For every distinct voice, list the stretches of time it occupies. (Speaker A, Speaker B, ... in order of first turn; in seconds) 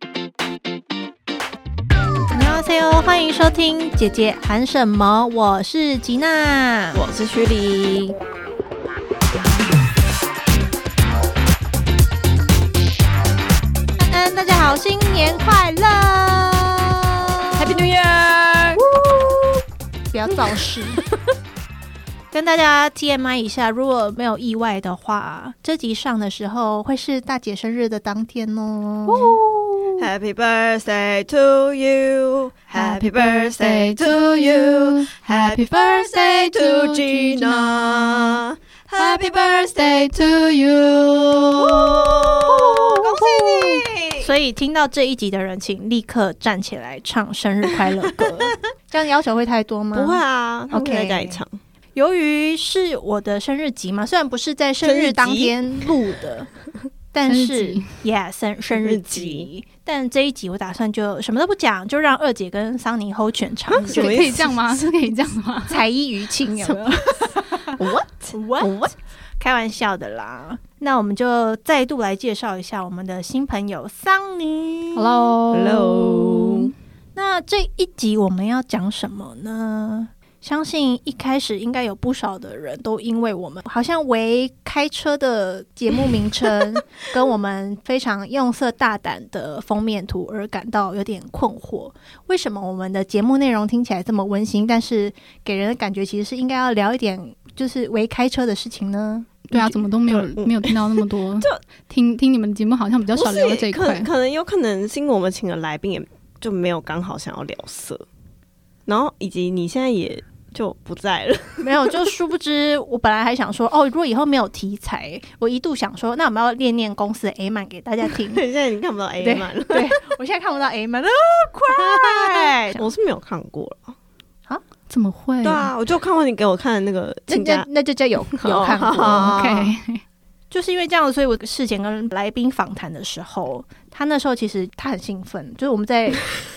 Speaker A: 2.3-7.0, 14.0-17.8, 18.8-19.0, 20.1-21.0, 22.3-29.3, 42.1-43.2, 44.2-51.4, 51.9-56.5, 57.1-64.4, 65.7-67.7, 68.3-68.8, 69.4-75.3, 77.1-99.4, 111.6-118.4, 119.2-122.9, 127.3-129.4, 130.5-136.2
Speaker B: 6.9-8.2, 17.6-18.8, 20.4-20.7, 30.0-40.1, 41.6-44.3, 47.8-48.5, 49.9-51.5, 54.8-56.0, 58.8-59.5, 63.7-64.8, 66.6-68.9, 75.5-76.7, 99.5-101.6, 103.2-108.0, 108.9-112.0, 118.1-120.0, 121.7-123.9, 125.4-127.7, 128.3-129.7
Speaker C: 29.1-30.1, 32.7-38.4, 39.0-43.8, 57.3-58.0, 63.8-65.8, 74.9-76.7, 99.5-104.1, 124.9-125.7, 129.1-130.0